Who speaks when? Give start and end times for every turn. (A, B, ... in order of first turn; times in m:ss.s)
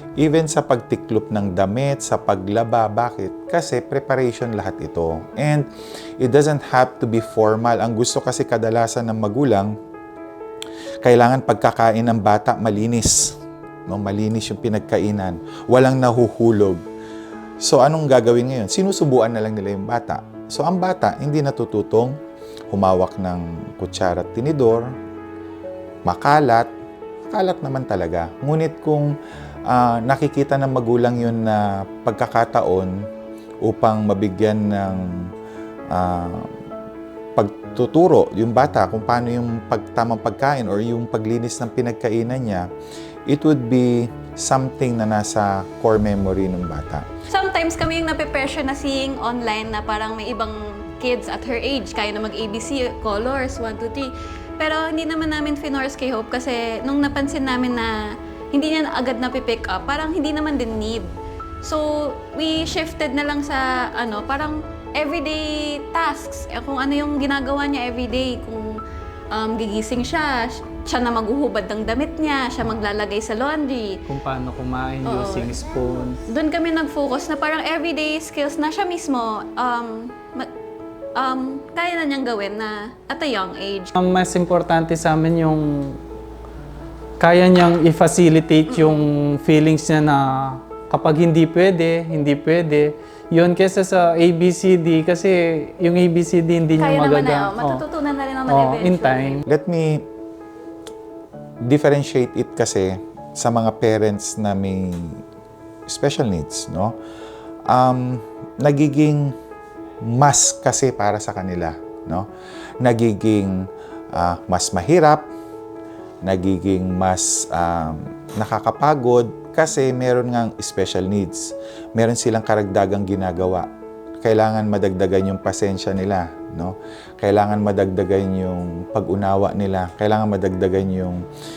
0:00.2-0:05.7 A
0:06.2-0:09.7 A
0:11.0-0:13.4 A
0:13.9-0:16.8 A
0:17.6-0:22.2 A
0:22.7-0:24.9 A
0:26.0-0:26.7 A
0:27.3-0:29.1 A
0:29.7-0:33.0 A
0:33.6-0:35.3 A
0:35.9-0:36.5 A
0:37.4-0:42.7 A
0:43.3-0:47.0 A
0:47.3-0:57.9 B
0:58.5-1:01.1 B
1:01.6-1:08.7 B
1:09.3-1:14.0 B
1:14.1-1:16.2 C
1:15.0-1:15.5 B
1:16.3-1:20.5 B
1:21.2-1:23.9 B
1:24.0-1:26.0 C
1:27.2-1:37.8 C
1:28.7-1:29.0 B
1:36.8-1:39.4 B
1:38.5-1:39.4 C
1:39.5-1:40.0 A
1:41.6-1:45.2 A
1:45.9-1:47.0 A
1:47.7-1:49.3 A
1:50.0-1:52.3 A
1:52.8-1:55.3 A
1:56.2-2:03.7 A
2:04.2-2:11.2 A